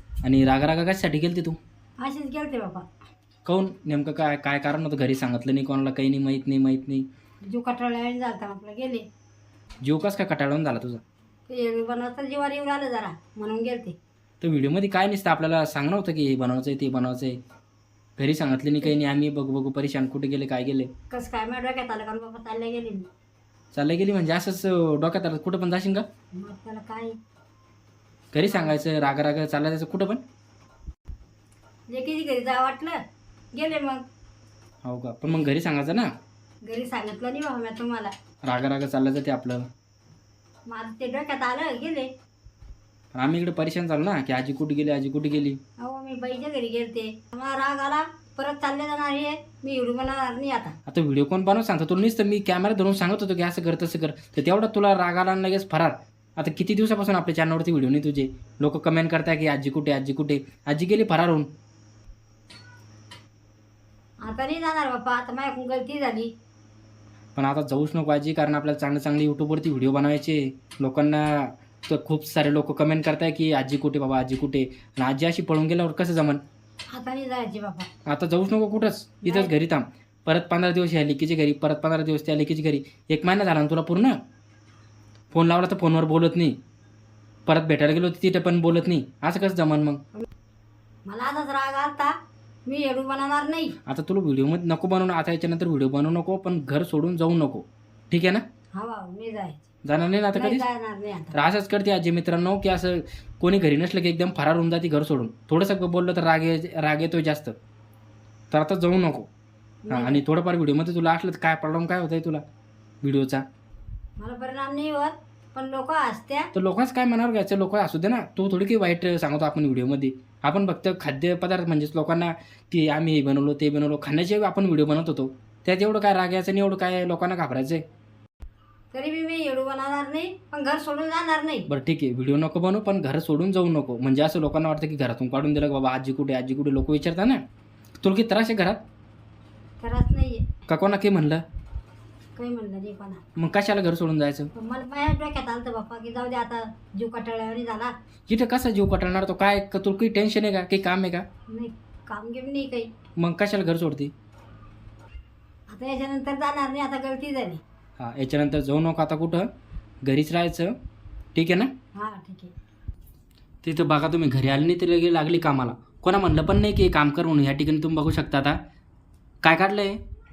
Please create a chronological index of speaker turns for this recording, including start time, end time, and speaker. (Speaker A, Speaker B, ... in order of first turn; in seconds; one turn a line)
Speaker A: 0.2-1.6
Speaker B: 2.0-2.9
Speaker A: 3.5-7.1
Speaker B: 7.5-9.1
Speaker A: 9.8-11.0
Speaker B: 11.5-14.0
Speaker A: 14.4-17.4
Speaker A: 18.2-20.9
Speaker B: 21.1-23.1
Speaker A: 23.7-26.1
Speaker B: 26.4-27.2
Speaker A: 28.3-30.2
Speaker B: 28.5-28.8
Speaker B: 31.9-33.0
Speaker B: 33.5-34.0
Speaker A: 34.9-36.1
Speaker B: 36.6-38.1
Speaker A: 38.4-39.6
Speaker B: 40.7-42.1
Speaker A: 43.1-45.6
Speaker B: 45.8-50.8
Speaker A: 50.9-61.5
Speaker B: 64.2-66.3
Speaker A: 67.4-76.4
Speaker B: 76.9-77.9
Speaker A: 78.1-84.2
Speaker B: 79.2-79.5
Speaker A: 85.3-86.6
Speaker A: 87.5-90.0
Speaker B: 91.1-92.1
Speaker B: 92.7-93.8
Speaker A: 93.9-98.4
Speaker B: 98.8-99.6
Speaker A: 99.8-100.7
Speaker B: 100.3-101.4
Speaker A: 101.3-107.5
Speaker A: 108.5-109.3
Speaker B: 109.8-110.2
Speaker A: 109.9-112.4
Speaker A: 113.0-113.4
Speaker B: 114.2-116.5
Speaker A: 116.5-127.8
Speaker B: 128.9-131.7
Speaker A: 131.7-137.4
Speaker A: 138.0-138.8
Speaker B: 139.8-140.4
Speaker A: 140.7-141.4
Speaker B: 142.4-143.2
Speaker A: 143.4-144.5
Speaker B: 144.6-147.9
Speaker A: 148.3-151.2
Speaker B: 151.5-152.9
Speaker A: 153.2-154.1
Speaker B: 155.7-157.6
Speaker A: 158.0-159.5
Speaker A: 160.0-160.8
Speaker A: 161.3-161.7
Speaker B: 161.9-162.5
Speaker A: 163.6-168.6
Speaker A: 169.4-170.0